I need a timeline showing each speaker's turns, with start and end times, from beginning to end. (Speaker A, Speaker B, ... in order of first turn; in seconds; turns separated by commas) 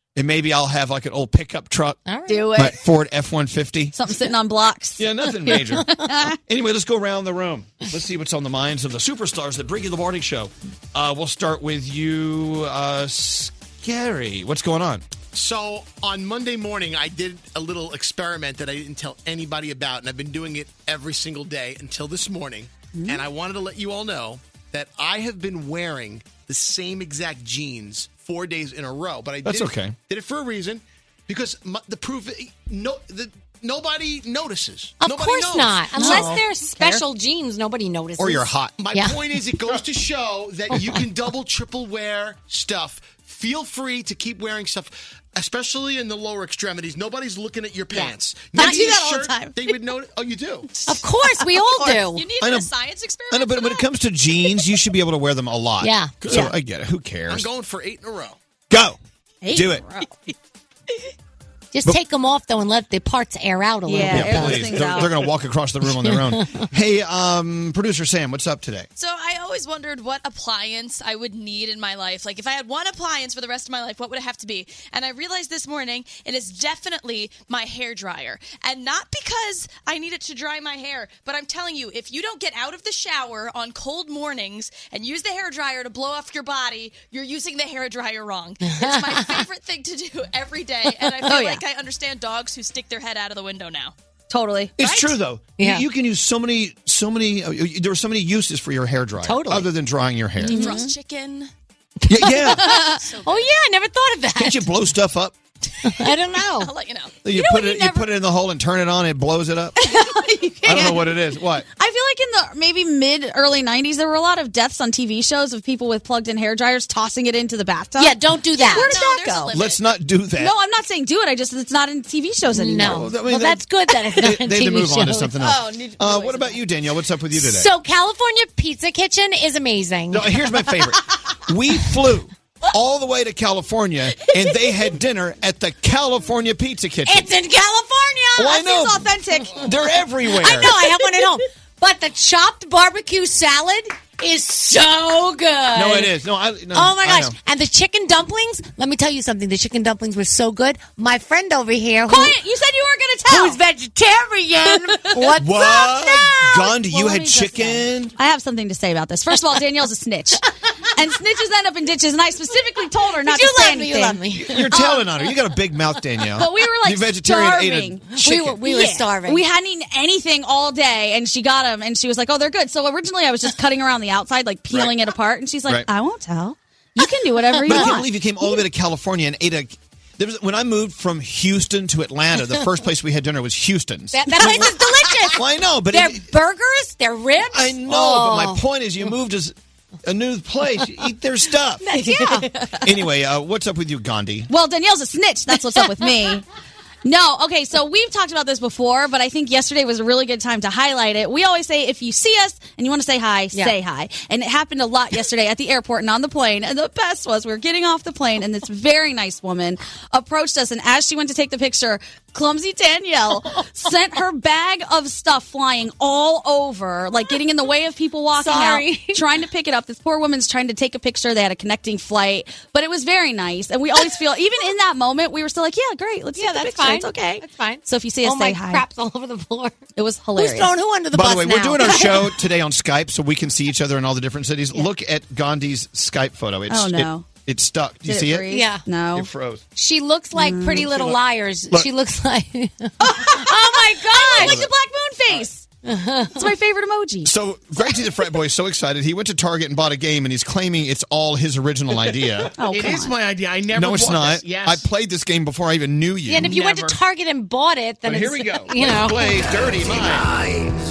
Speaker A: 0.1-2.0, Speaker B: 2.1-2.5, Speaker C: 2.3-2.8, Speaker A: 2.6-3.9, Speaker C: 3.9-6.3, Speaker A: 5.0-5.9, Speaker A: 6.5-15.0, Speaker D: 15.3-36.4, Speaker C: 22.9-23.2, Speaker A: 29.4-29.9, Speaker B: 35.0-39.2, Speaker C: 36.0-37.0, Speaker A: 38.2-38.7, Speaker D: 38.8-50.8, Speaker B: 40.7-41.0, Speaker B: 47.9-49.5, Speaker B: 50.9-52.3, Speaker E: 51.9-53.8, Speaker A: 52.4-52.7, Speaker A: 53.3-57.5, Speaker B: 55.8-56.5, Speaker D: 57.3-58.4, Speaker A: 58.7-59.0, Speaker C: 59.4-60.2, Speaker A: 59.5-59.8, Speaker B: 61.7-65.0, Speaker C: 63.9-65.1, Speaker A: 64.0-68.9, Speaker B: 66.0-66.7, Speaker E: 69.0-93.9, Speaker B: 88.7-89.4, Speaker C: 91.2-91.6, Speaker C: 94.3-95.0, Speaker A: 94.8-100.7, Speaker B: 95.6-95.8, Speaker B: 99.2-99.7, Speaker C: 100.4-100.9, Speaker E: 100.5-101.5, Speaker A: 102.1-102.8, Speaker B: 102.2-104.7, Speaker E: 102.7-103.5, Speaker A: 104.3-105.3, Speaker B: 105.8-106.7, Speaker E: 106.6-107.1, Speaker A: 107.2-109.8, Speaker C: 107.3-108.0, Speaker C: 109.8-111.0, Speaker A: 110.6-111.7, Speaker C: 111.8-119.5, Speaker B: 118.0-119.1, Speaker E: 118.6-119.8, Speaker A: 119.5-120.5, Speaker C: 120.4-123.1, Speaker B: 122.5-125.3, Speaker A: 122.8-123.7, Speaker A: 124.2-127.7, Speaker C: 125.4-126.6, Speaker B: 127.3-130.5, Speaker A: 130.1-137.3, Speaker B: 137.1-138.5, Speaker A: 138.3-140.8, Speaker C: 138.4-139.7, Speaker B: 140.3-146.1, Speaker A: 145.7-147.3, Speaker B: 146.7-152.4, Speaker C: 152.1-153.6, Speaker B: 153.3-156.5, Speaker A: 155.2-158.1, Speaker C: 156.7-165.1, Speaker B: 163.2-164.8, Speaker A: 164.3-168.6, Speaker C: 166.3-178.1, Speaker B: 168.2-169.4, Speaker B: 177.6-178.0, Speaker A: 177.7-184.7, Speaker B: 184.1-188.6, Speaker A: 185.3-186.3, Speaker A: 187.5-191.8, Speaker B: 191.8-192.5, Speaker C: 191.9-192.5, Speaker A: 192.8-194.5, Speaker C: 194.5-196.4, Speaker C: 197.0-228.8, Speaker B: 218.4-219.2, Speaker B: 226.3-229.8, Speaker C: 229.9-230.7, Speaker B: 230.3-232.3, Speaker A: 231.1-238.5, Speaker C: 236.7-237.3, Speaker C: 238.1-239.3, Speaker B: 238.5-238.8, Speaker A: 239.1-239.6, Speaker B: 239.8-244.6, Speaker C: 240.3-240.9, Speaker A: 240.8-241.9, Speaker C: 243.0-245.7, Speaker A: 244.4-244.7, Speaker B: 245.8-246.5, Speaker C: 246.3-247.3, Speaker A: 247.2-252.5, Speaker C: 252.6-253.2, Speaker F: 252.7-254.9, Speaker A: 253.7-256.9, Speaker B: 256.3-259.4, Speaker A: 258.1-260.3